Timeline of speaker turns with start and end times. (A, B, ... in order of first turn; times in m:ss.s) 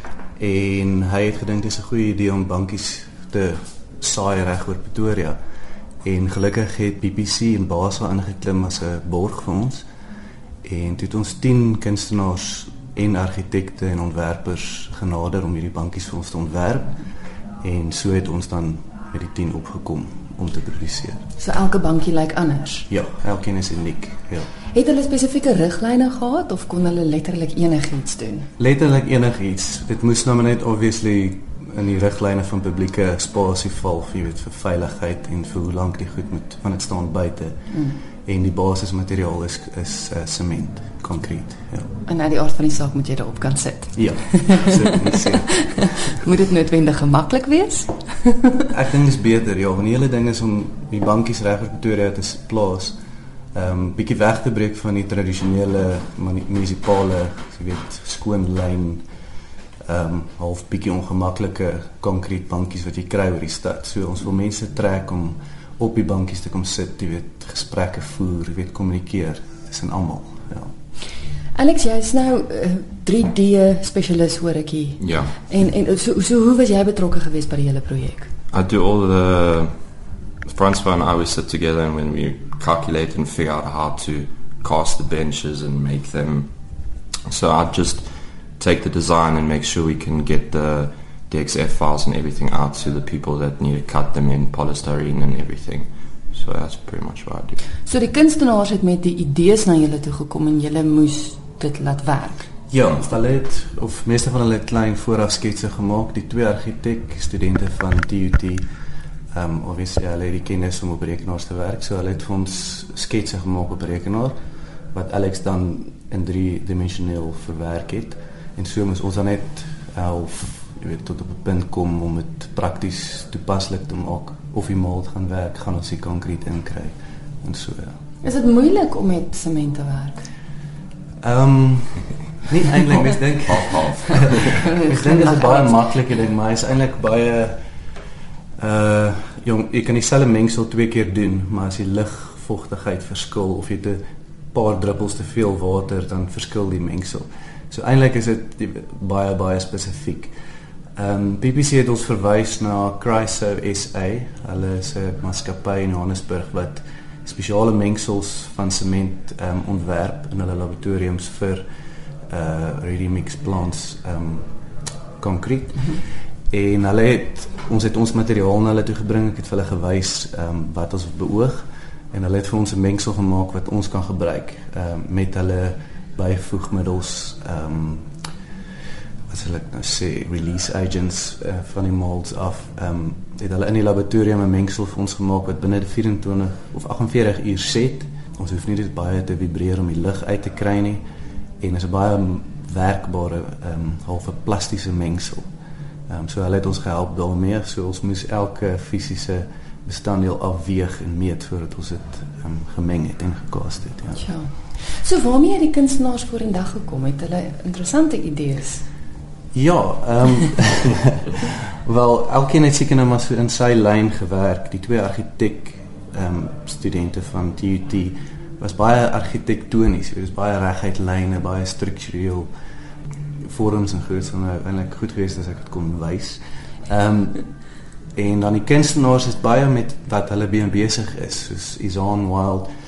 0:00.4-0:05.4 A
0:06.0-0:09.8 A
0:10.6-0:17.0 A
0:17.6-0:21.2 A
0:21.4-0:22.9 B
0:22.9-0:24.5 A
0:24.7-0:28.5 B
0:28.6-0:41.9 A
0:37.7-0:38.0 B
0:42.1-0:48.5 B
0:43.9-0:46.1 A
0:48.7-0:52.9 A
0:53.5-0:59.0 A
0:59.8-1:10.7 A
1:11.5-1:18.3 B
1:15.0-1:15.3 C
1:18.5-1:37.6 C
1:37.8-1:42.5 B
1:42.7-1:48.6 A
1:49.3-1:54.4 A
1:54.9-2:08.0 A
2:08.2-2:10.2 B
2:11.2-2:17.6 A
2:14.5-2:15.8 B
2:18.6-2:24.0 A
2:24.5-2:30.3 A
2:31.0-2:41.6 A
2:42.3-2:44.5 A
2:45.2-2:58.1 A
2:59.3-3:11.0 A
3:11.6-3:15.5 A
3:16.1-3:24.3 A
3:24.2-3:28.8 B
3:29.5-3:42.5 A
3:43.4-3:52.7 A